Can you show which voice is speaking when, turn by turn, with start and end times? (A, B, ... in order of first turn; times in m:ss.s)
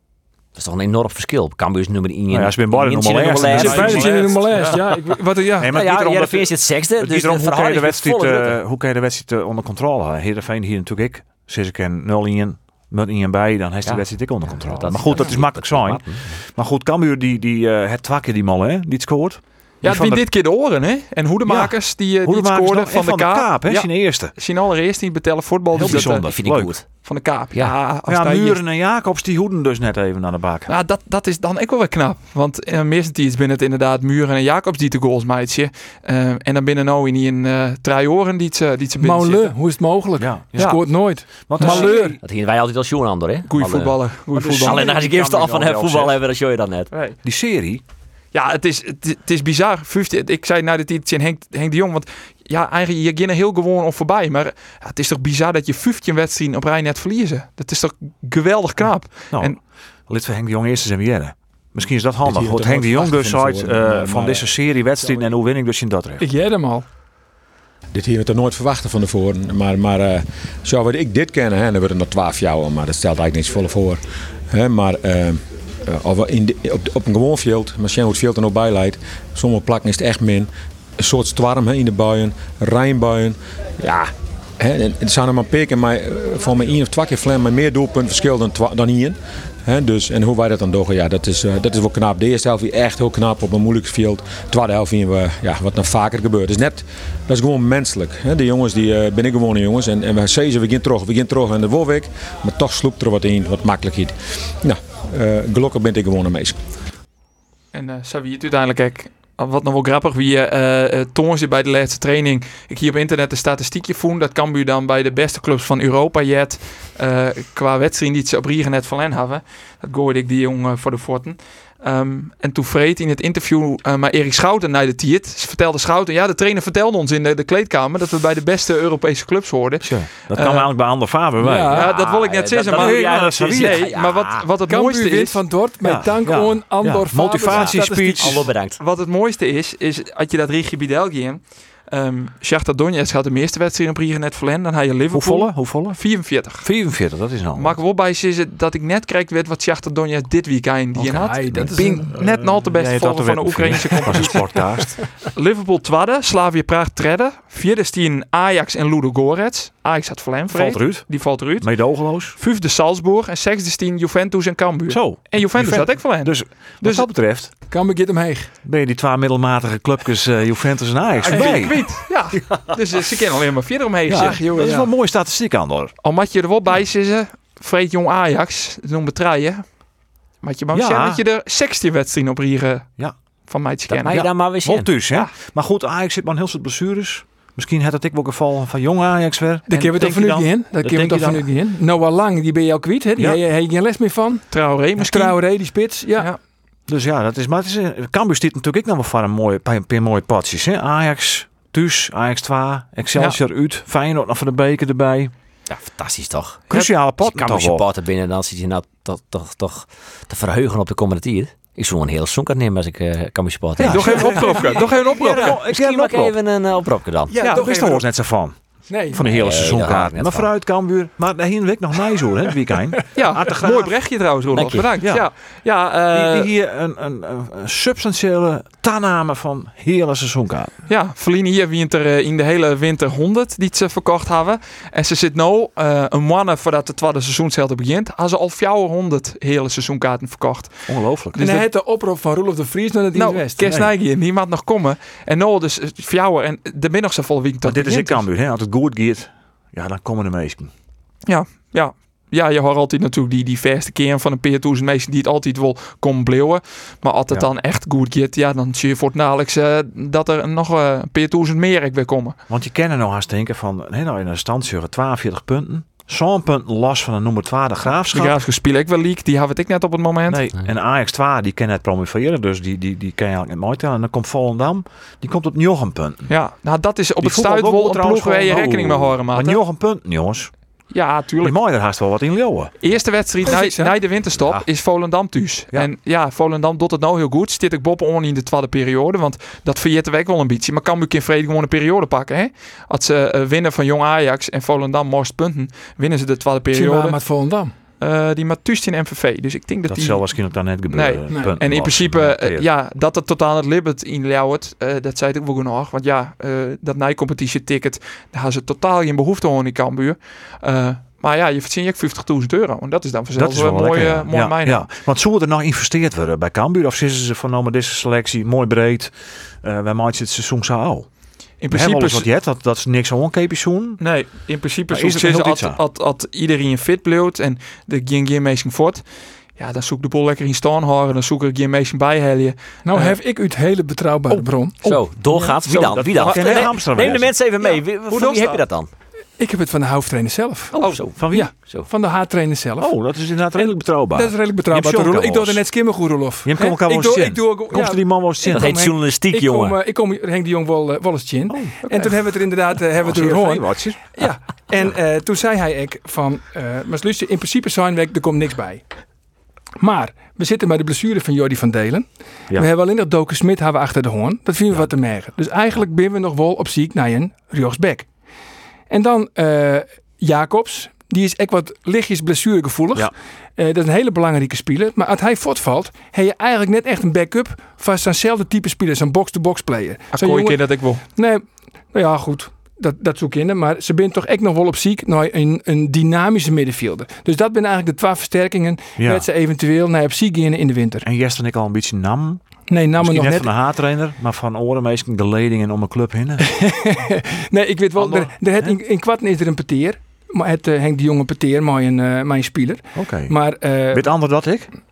0:00.5-0:04.1 A
0:02.3-0:04.8 B
0:03.5-0:04.8 C
0:03.5-0:05.7 D
0:05.6-0:16.0 B
0:05.7-0:08.6 A
0:13.8-0:16.4 A
0:16.5-0:20.2 B
0:19.8-0:26.3 C
0:21.4-0:24.3 B
0:25.7-0:26.8 B
0:25.8-0:26.8 A
0:26.9-0:28.6 C
0:28.1-0:30.7 B
0:30.7-0:39.6 C
0:39.0-0:42.2 D
0:40.2-0:42.2 B
0:41.6-0:42.2 C
0:42.2-0:44.0 A
0:43.5-0:44.9 C
0:44.3-0:46.2 B
0:44.6-0:46.9 A
0:46.9-0:47.2 C
0:47.2-0:47.8 B
0:48.3-0:59.6 C
1:00.1-1:06.2 B
1:02.2-1:05.3 E
1:06.2-1:06.8 D
1:07.9-1:46.6 E
1:47.7-2:10.7 C
2:09.8-2:11.8 B
2:11.4-2:11.9 D
2:11.7-2:14.5 A
2:11.7-2:15.4 C
2:12.7-2:13.9 B
2:14.7-2:18.4 D
2:15.8-2:18.5 B
2:17.4-2:18.8 A
2:18.8-2:26.7 C
2:25.1-2:26.0 B
2:26.6-2:27.8 B
2:27.5-2:47.1 C
2:30.9-2:35.1 B
2:31.1-2:32.1 D
2:40.5-2:42.4 B
2:44.9-2:47.5 B
2:47.7-2:48.5 D
2:48.6-2:52.7 B
2:51.2-2:54.9 C
2:51.3-2:51.8 D
2:54.1-2:55.9 B
2:54.2-2:54.8 D
2:56.0-2:59.6 C
3:00.4-3:02.9 C
3:00.7-3:01.2 B
3:03.5-3:04.1 C
3:03.9-3:04.9 A
3:04.1-3:11.4 B
3:09.7-3:16.3 D
3:13.2-3:13.4 B
3:14.5-3:15.4 C
3:16.9-3:25.3 B
3:25.7-3:37.4 A
3:26.7-3:27.8 B
3:33.8-3:36.3 B
3:33.8-3:35.6 C
3:34.0-3:34.8 D
3:37.3-3:38.0 D
3:37.5-3:38.6 B
3:38.9-3:39.2 D
3:39.1-3:43.9 B
3:39.2-3:40.5 A
3:43.1-3:46.5 C
3:44.5-3:44.9 A
3:45.0-3:45.3 B
3:46.1-3:50.7 B
3:50.9-4:00.8 C
4:00.9-4:01.7 B
4:01.4-4:03.7 D
4:03.1-4:08.2 C
4:03.6-4:03.9 B
4:07.6-4:10.7 B
4:11.2-4:22.4 C
4:22.5-4:28.4 B
4:28.1-4:30.4 C
4:30.3-4:36.3 B
4:36.3-4:39.6 C
4:37.2-4:40.5 B
4:40.9-4:41.6 C
4:41.4-4:42.7 B
4:42.8-4:57.2 C
4:43.4-4:43.9 D
4:56.7-4:57.7 D
4:58.0-5:14.9 C
4:59.9-5:02.7 B
5:13.4-5:21.1 B
5:21.6-5:22.3 C
5:21.7-5:24.0 B
5:24.0-5:29.0 C
5:24.9-5:25.8 B
5:29.6-5:33.2 C
5:32.8-5:34.7 D
5:34.3-5:38.9 A
5:34.8-5:38.6 C
5:35.8-5:37.3 B
5:39.4-5:40.8 D
5:40.7-5:41.9 A
5:40.7-5:41.1 C
5:41.2-5:41.5 B
5:41.3-5:43.0 D
5:42.8-5:45.6 B
5:43.6-5:58.8 D
5:46.4-5:48.7 B
5:48.4-5:49.8 A
5:51.5-5:51.9 B
5:53.0-5:54.1 B
5:59.8-6:08.1 D
6:08.9-6:31.0 D
6:20.1-6:21.0 C
6:29.0-6:29.3 B
6:31.0-6:32.4 B
6:32.7-6:33.5 D
6:33.0-6:36.4 B
6:36.4-6:44.1 D
6:38.0-6:38.8 B
6:42.9-6:43.4 B
6:43.9-6:44.7 B